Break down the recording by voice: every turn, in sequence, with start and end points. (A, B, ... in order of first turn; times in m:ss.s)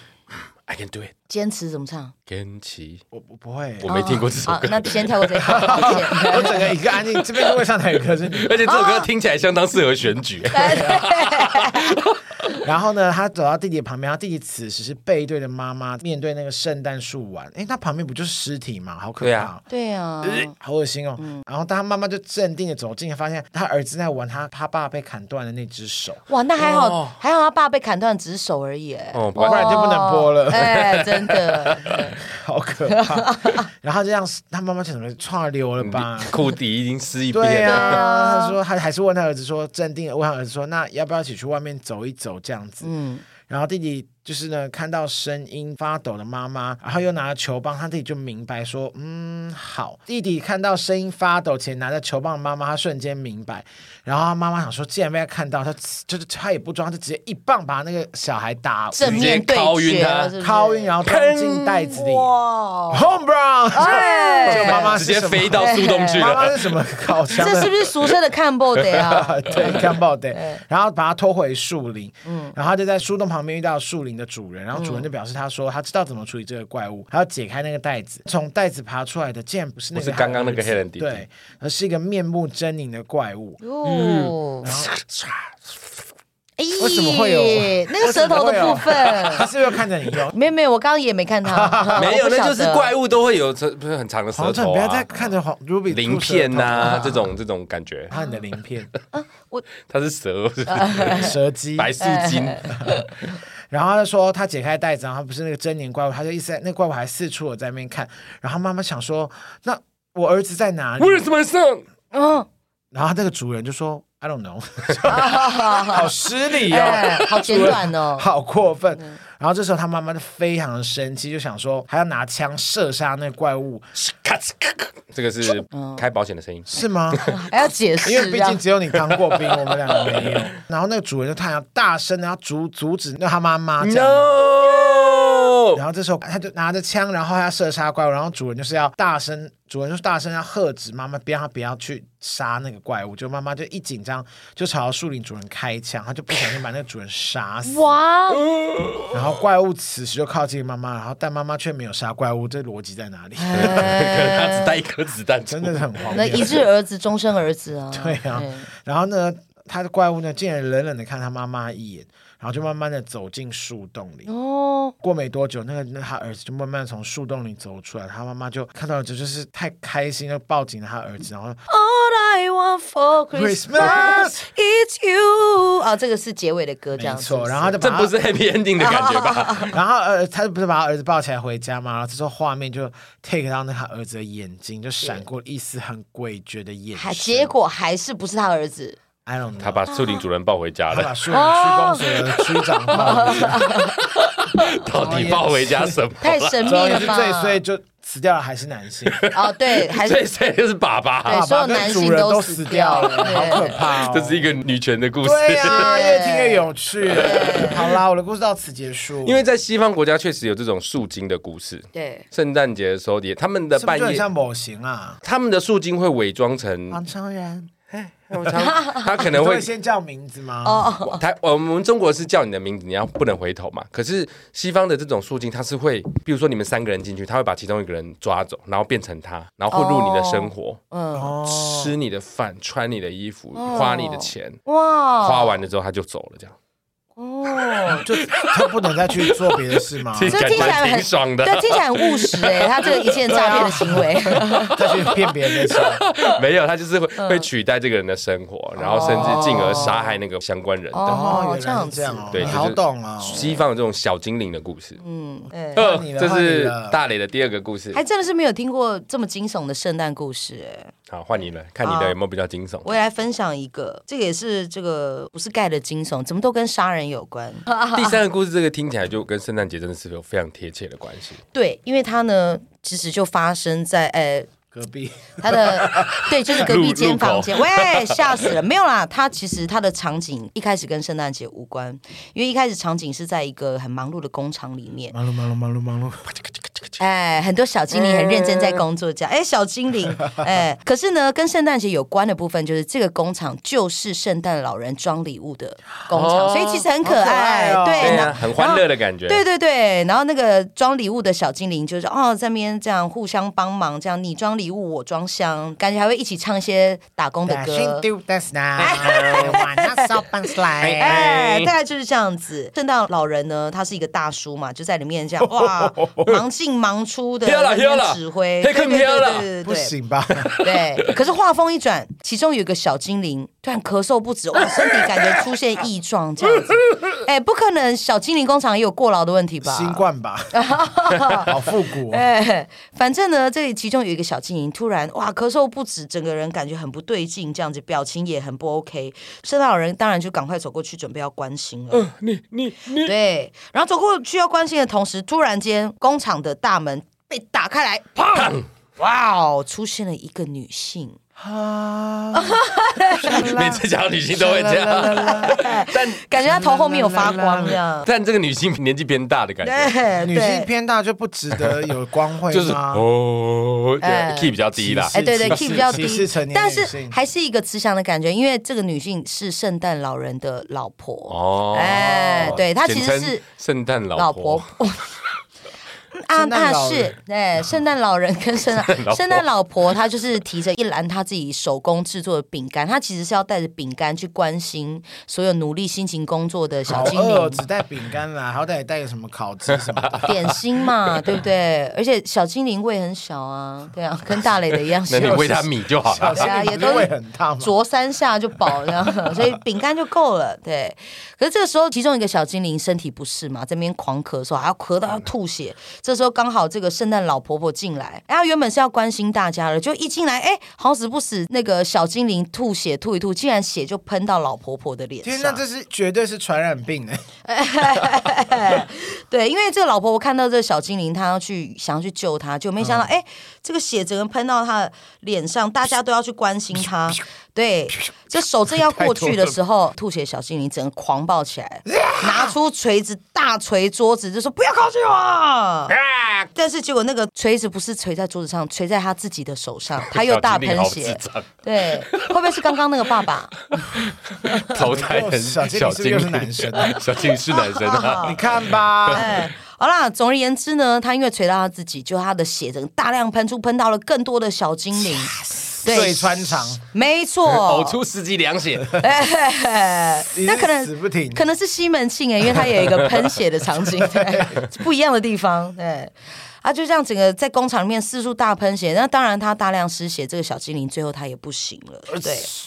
0:00.6-0:01.1 A
0:01.3-0:02.1 B
0:02.3-0:03.0 A
0:03.1-0:03.9 C
0:03.8-0:07.6 A
0:03.8-0:06.6 B
0:05.4-0:08.7 C
0:08.3-0:12.1 A
0:08.6-0:09.1 B
0:10.5-0:12.6 B
0:10.6-0:11.0 C
0:12.6-0:19.6 C
0:19.2-0:19.5 A
0:19.7-0:20.5 B
0:20.2-0:26.2 C
0:21.2-0:21.4 B
0:26.3-0:32.2 B
0:26.6-0:27.2 A
0:29.1-0:29.8 A
0:29.4-0:30.9 C
0:30.5-0:32.0 A
0:32.2-0:36.4 C
0:32.9-0:33.7 B
0:35.8-0:38.0 A
0:37.3-0:42.9 C
0:37.6-0:38.6 B
0:42.8-0:43.2 B
0:43.4-0:59.4 C
0:58.9-1:00.9 B
0:59.0-1:00.3 A
1:00.4-1:02.3 C
1:01.0-1:01.9 A
1:01.9-1:03.1 B
1:02.9-1:07.7 C
1:03.7-1:05.0 B
1:04.4-1:06.8 A
1:05.5-1:06.4 B
1:07.3-1:10.6 B
1:08.9-1:09.8 A
1:09.0-1:23.6 C
1:12.2-1:12.5 B
1:14.7-1:15.0 B
1:19.9-1:21.2 A
1:23.6-1:24.7 B
1:23.8-1:25.5 A
1:24.6-1:24.9 C
1:26.6-1:29.5 B
1:26.8-1:30.3 C
1:30.3-1:32.9 B
1:31.4-1:32.2 C
1:32.0-1:35.3 A
1:34.3-1:37.3 C
1:35.9-1:38.1 A
1:38.1-1:38.9 C
1:39.1-1:39.6 B
1:39.8-1:42.9 A
1:40.7-1:41.3 B
1:41.0-1:41.9 C
1:42.0-1:43.3 B
1:43.7-1:51.3 C
1:51.0-1:51.8 A
1:52.1-1:52.5 B
1:52.9-2:03.9 C
1:55.1-1:56.1 B
1:56.7-1:58.2 B
1:57.0-1:57.7 A
2:04.0-2:07.3 A
2:05.7-2:06.0 B
2:06.7-2:07.2 C
2:07.3-2:08.6 B
2:08.0-2:14.3 C
2:09.0-2:10.4 A
2:13.8-2:15.8 A
2:14.9-2:15.4 B
2:15.7-2:27.8 C
2:27.6-2:28.4 B
2:28.4-2:29.2 A
2:29.1-2:34.0 C
2:33.4-2:34.8 B
2:33.5-2:36.6 A
2:35.5-2:36.6 C
2:36.1-2:38.7 B
2:37.9-2:44.3 C
2:44.3-2:44.9 B
2:45.0-2:51.6 C
2:51.7-2:57.8 B
2:53.3-2:54.4 C
2:57.0-2:58.2 C
2:57.8-2:59.7 A
2:58.8-2:59.7 B
2:59.7-3:07.5 C
3:06.9-3:09.0 B
3:09.2-3:09.9 C
3:09.6-3:11.2 A
3:09.9-3:10.2 B
3:10.9-3:13.7 C
3:11.3-3:12.2 B
3:12.6-3:16.9 A
3:12.9-3:14.8 B
3:14.9-3:16.0 C
3:16.2-3:17.6 B
3:16.6-3:19.2 C
3:19.1-3:21.4 A
3:19.3-3:20.2 B
3:21.2-3:23.7 B
3:21.2-3:24.6 C
3:23.0-3:26.0 A
3:25.2-3:29.4 C
3:25.6-3:27.8 B
3:27.0-3:28.0 A
3:29.2-3:34.2 A
3:31.9-3:32.2 B
3:33.8-3:35.2 C
3:35.2-3:37.0 A
3:36.9-3:37.7 C
3:37.9-3:39.7 A
3:38.6-3:39.0 B
3:39.2-3:40.9 C
3:40.6-3:41.2 B
3:41.0-3:50.8 A
3:49.7-3:51.3 B
3:51.1-3:51.9 C
3:51.4-3:54.6 A
3:53.5-3:55.6 B
3:55.2-3:56.5 A
3:57.2-3:58.0 B
3:57.9-4:00.8 C
3:58.1-4:11.2 A
4:00.3-4:04.8 B
4:03.3-4:06.0 C
4:07.2-4:07.5 B
4:08.8-4:10.0 C
4:08.8-4:10.1 B
4:10.9-4:12.6 B
4:11.0-4:13.5 C
4:12.3-4:15.0 A
4:15.0-4:15.8 B
4:15.7-4:17.0 C
4:15.7-4:18.0 A
4:17.9-4:20.9 B
4:21.1-4:22.9 A
4:21.8-4:22.2 B
4:22.8-4:28.2 B
4:27.9-4:31.4 A
4:31.5-4:34.5 B
4:34.7-4:36.2 C
4:35.4-4:45.1 B
4:35.8-4:38.5 A
4:45.1-4:46.3 C
4:47.0-5:08.0 B
4:47.9-4:48.8 A
4:56.1-4:56.8 A
4:57.0-4:58.4 C
4:58.0-4:59.4 A
5:07.4-5:11.4 C
5:08.8-5:19.9 B
5:08.8-5:09.6 A
5:10.8-5:11.7 A
5:15.4-5:16.4 C
5:17.4-5:19.5 A
5:19.6-5:20.5 C
5:20.3-5:21.2 A
5:20.6-5:31.6 B
5:24.7-5:25.4 A
5:26.6-5:27.1 A
5:29.6-5:30.5 C
5:31.3-5:32.2 C
5:32.1-5:42.1 B
5:41.9-5:43.1 A
5:43.0-5:51.2 B
5:48.2-5:48.6 A
5:51.4-5:52.6 C
5:52.3-5:53.5 B
5:53.1-5:55.7 C
5:53.2-5:56.2 A
5:55.3-5:58.1 B
5:56.4-5:57.8 C
5:58.0-5:59.9 A
5:59.6-6:00.7 B
6:00.2-6:03.0 C
6:01.5-6:01.8 A
6:02.5-6:06.0 A
6:04.0-6:04.6 B
6:04.8-6:07.2 C
6:05.1-6:13.4 B
6:11.3-6:14.7 A
6:14.2-6:15.1 B
6:16.1-6:27.6 B
6:16.3-6:17.2 C
6:18.6-6:19.4 A
6:26.9-6:30.3 C
6:29.9-6:30.5 A
6:30.2-6:35.7 B
6:35.1-6:36.5 A
6:36.0-6:37.7 C
6:36.3-6:55.6 B
6:55.2-6:57.2 C
6:57.4-7:15.9 B
7:02.8-7:03.1 C
7:08.8-7:09.5 C
7:11.9-7:12.5 C
7:15.9-7:16.5 A
7:16.5-7:23.6 B
7:20.0-7:21.5 A
7:22.0-7:22.7 A
7:23.7-7:29.3 A
7:24.4-7:24.7 B
7:24.7-7:27.0 C
7:26.9-7:28.4 B
7:28.2-7:29.4 C
7:29.1-7:38.0 B
7:35.3-7:36.8 C
7:37.4-7:39.0 A
7:39.0-7:52.5 B
7:40.3-7:41.4 C
7:43.9-7:44.6 C